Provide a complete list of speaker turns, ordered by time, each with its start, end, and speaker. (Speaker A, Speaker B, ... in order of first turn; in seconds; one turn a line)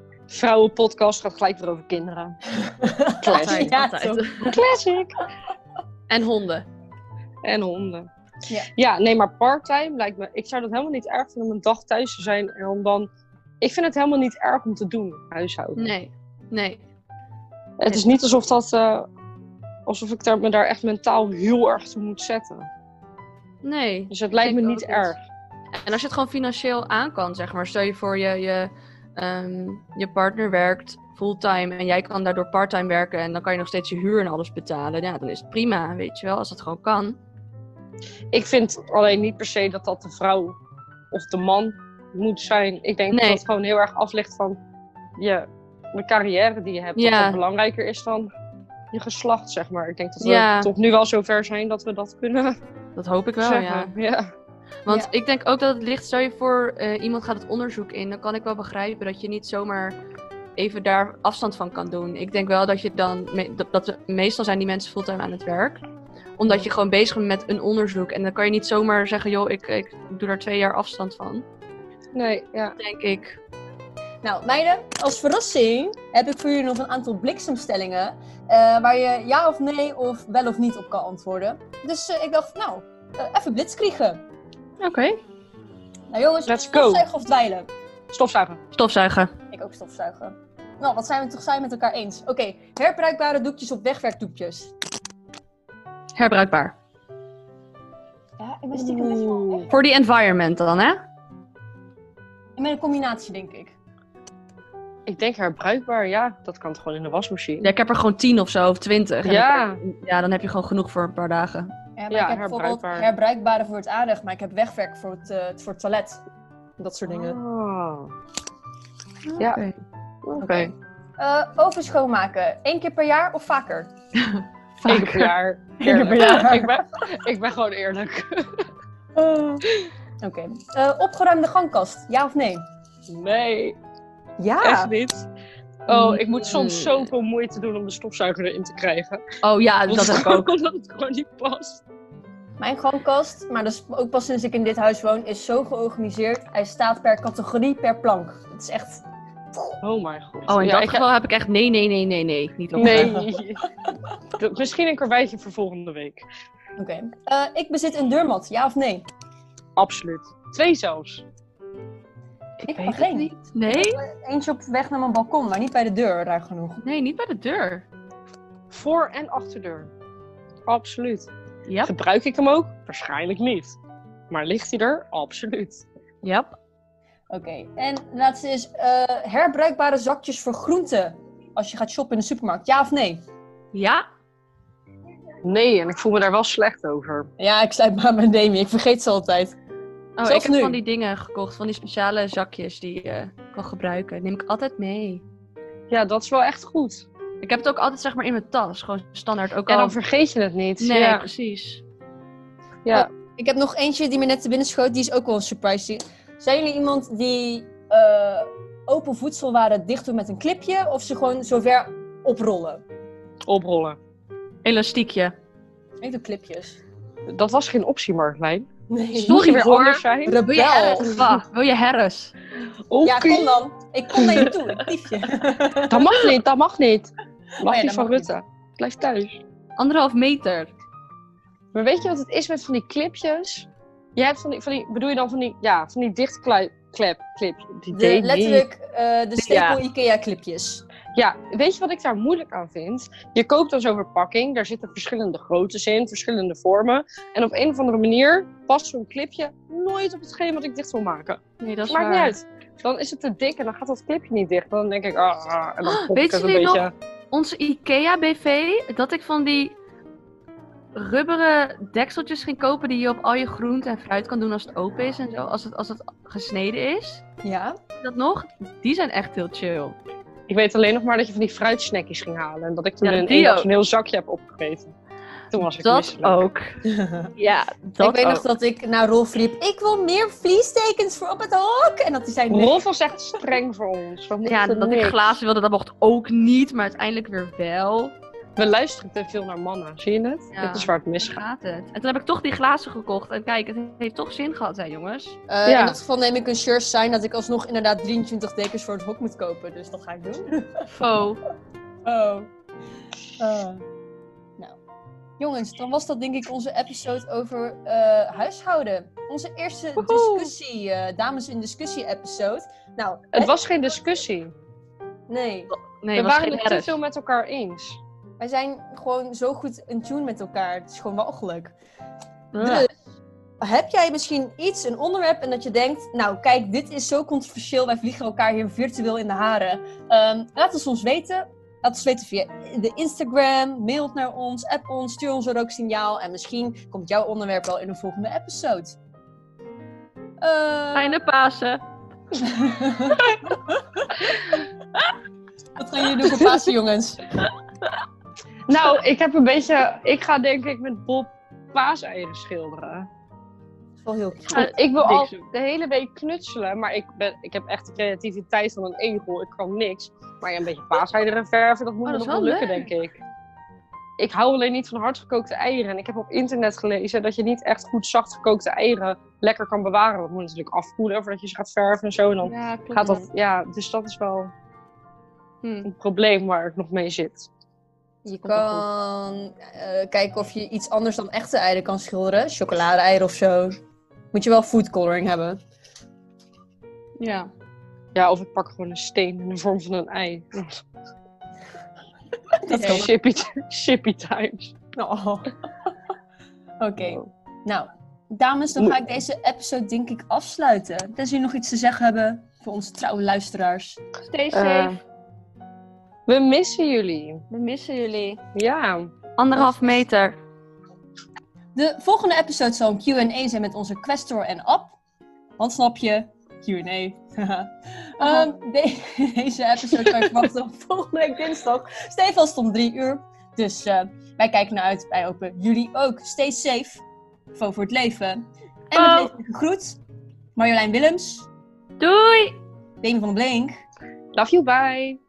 Speaker A: 0.3-2.4
Speaker B: 2.6-4.5
Speaker A: 3.2-3.7
Speaker C: 3.3-4.6
Speaker A: 4.4-5.2
Speaker C: 6.1-6.7
Speaker A: 7.4-8.1
Speaker A: 8.7-13.1
Speaker A: 13.6-15.9
Speaker C: 15.8-16.8
Speaker A: 17.8-19.1
Speaker A: 19.9-22.7
Speaker C: 23.6-25.1
Speaker A: 24.1-25.2
Speaker C: 25.7-37.2
Speaker A: 38.3-40.6
Speaker A: 41.1-44.6
Speaker C: 43.1-43.4
Speaker A: 45.2-48.3
Speaker C: 47.0-47.4
Speaker A: 48.9-52.6
Speaker C: 50.2-50.7
Speaker C: 53.0-53.9
Speaker A: 53.4-54.3
Speaker C: 54.8-60.0
Speaker C: 60.6-65.8
Speaker C: 66.4-71.4
Speaker A: 72.1-72.8
Speaker C: 72.8-73.4
Speaker B: 74.2-84.2
Speaker C: 84.8-85.2
Speaker B: 86.1-87.7
Speaker A: 86.5-87.1
Speaker A: 88.1-88.6
Speaker C: 88.7-89.3
Speaker B: 89.5-94.7
Speaker C: 96.2-96.7
Speaker B: 98.4-99.7
Speaker A: 98.7-99.7
Speaker C: 99.7-101.0
Speaker B: 102.6-103.7
Speaker A: 105.1-107.7
Speaker C: 107.6-111.7
Speaker A: 109.2-109.8
Speaker B: 112.0-116.2
Speaker A: 112.1-113.1
Speaker B: 116.8-117.4
Speaker A: 117.1-118.1
Speaker C: 119.3-119.8
Speaker A: 120.2-120.7
Speaker B: 120.4-123.9
Speaker C: 124.2-125.3
Speaker A: 124.9-128.7
Speaker B: 125.8-126.8
Speaker B: 129.1-129.6
Speaker B: 130.2-132.6
Speaker A: 133.1-133.8
Speaker B: 134.4-134.9
Speaker A: 134.6-135.3
Speaker A: 135.9-139.2
Speaker C: 135.9-137.1
Speaker C: 139.4-140.5
Speaker A: 139.9-141.8
Speaker B: 142.6-149.0
Speaker A: 149.8-151.0
Speaker C: 150.5-153.2
Speaker A: 152.8-153.7
Speaker B: 152.8-153.3
Speaker A: 154.4-156.2
Speaker B: 156.8-159.1
Speaker A: 159.8-161.2
Speaker C: 162.6-164.0
Speaker B: 162.6-166.8
Speaker C: 166.8-167.8
Speaker A: 168.7-169.9
Speaker A: 170.7-171.3
Speaker C: 171.7-171.9
Speaker A: 171.8-173.8
Speaker A: 174.3-175.8
Speaker C: 176.2-176.6
Speaker B: 177.3-183.2
Speaker C: 183.7-184.1
Speaker A: 185.4-187.3
Speaker B: 187.4-189.6
Speaker C: 190.2-195.2
Speaker B: 190.2-190.8
Speaker A: 195.9-197.1
Speaker C: 197.4-200.0
Speaker A: 199.7-201.3
Speaker C: 200.8-201.8
Speaker B: 202.9-212.8
Speaker A: 213.5-214.0
Speaker C: 214.6-215.3
Speaker B: 216.0-216.8
Speaker A: 217.3-220.4
Speaker B: 218.9-219.5
Speaker C: 219.2-222.3
Speaker B: 220.2-221.3
Speaker A: 222.9-223.6
Speaker B: 223.0-226.1
Speaker A: 224.1-224.5
Speaker A: 225.9-229.4
Speaker B: 227.6-228.3
Speaker C: 229.8-230.7
Speaker A: 231.7-238.6
Speaker B: 237.9-240.8
Speaker C: 239.4-239.8
Speaker A: 241.1-256.9
Speaker C: 251.6-252.3
Speaker C: 255.8-259.7
Speaker C: 260.9-267.2
Speaker B: 267.4-267.8
Speaker C: 268.0-269.9
Speaker A: 270.5-274.9
Speaker C: 273.0-273.7
Speaker A: 275.5-276.4
Speaker C: 275.6-276.8
Speaker B: 276.8-277.3
Speaker C: 277.4-278.4
Speaker B: 278.0-282.8
Speaker A: 282.5-285.2
Speaker C: 284.4-288.1
Speaker A: 288.6-291.4
Speaker C: 290.5-295.4
Speaker B: 295.5-300.9
Speaker A: 295.6-296.0
Speaker C: 300.9-301.4
Speaker B: 302.0-302.5
Speaker B: 303.4-303.9
Speaker B: 305.4-313.6
Speaker C: 310.0-310.5
Speaker A: 313.3-314.5
Speaker B: 315.3-315.7
Speaker C: 315.7-316.9
Speaker A: 316.1-318.0
Speaker B: 318.4-321.7
Speaker C: 322.5-322.9
Speaker B: 322.6-322.9
Speaker B: 323.6-339.0
Speaker B: 340.4-341.2
Speaker C: 340.9-341.8
Speaker B: 342.4-343.8
Speaker B: 345.8-347.2
Speaker A: 348.7-353.1
Speaker B: 354.0-354.7
Speaker C: 354.5-355.3
Speaker A: 354.5-363.2
Speaker C: 362.1-362.9
Speaker A: 364.2-374.5
Speaker C: 372.4-373.2
Speaker C: 375.6-375.9
Speaker A: 375.8-377.5
Speaker B: 378.2-383.8
Speaker C: 378.4-378.8
Speaker B: 384.3-385.6
Speaker C: 387.2-387.5
Speaker A: 388.1-390.8
Speaker B: 392.6-393.1
Speaker A: 392.7-394.7
Speaker C: 392.8-393.1
Speaker B: 394.9-395.5
Speaker B: 396.8-404.0
Speaker C: 404.2-405.0
Speaker A: 404.5-405.0
Speaker A: 406.3-407.4
Speaker C: 407.5-408.4
Speaker A: 408.5-409.1
Speaker C: 409.4-410.3
Speaker B: 409.5-410.0
Speaker B: 411.7-414.9
Speaker B: 415.6-427.0
Speaker C: 418.2-418.4
Speaker B: 427.5-430.0
Speaker C: 428.9-429.3
Speaker B: 430.6-431.5
Speaker C: 432.0-432.6
Speaker B: 433.0-433.8
Speaker A: 434.3-435.2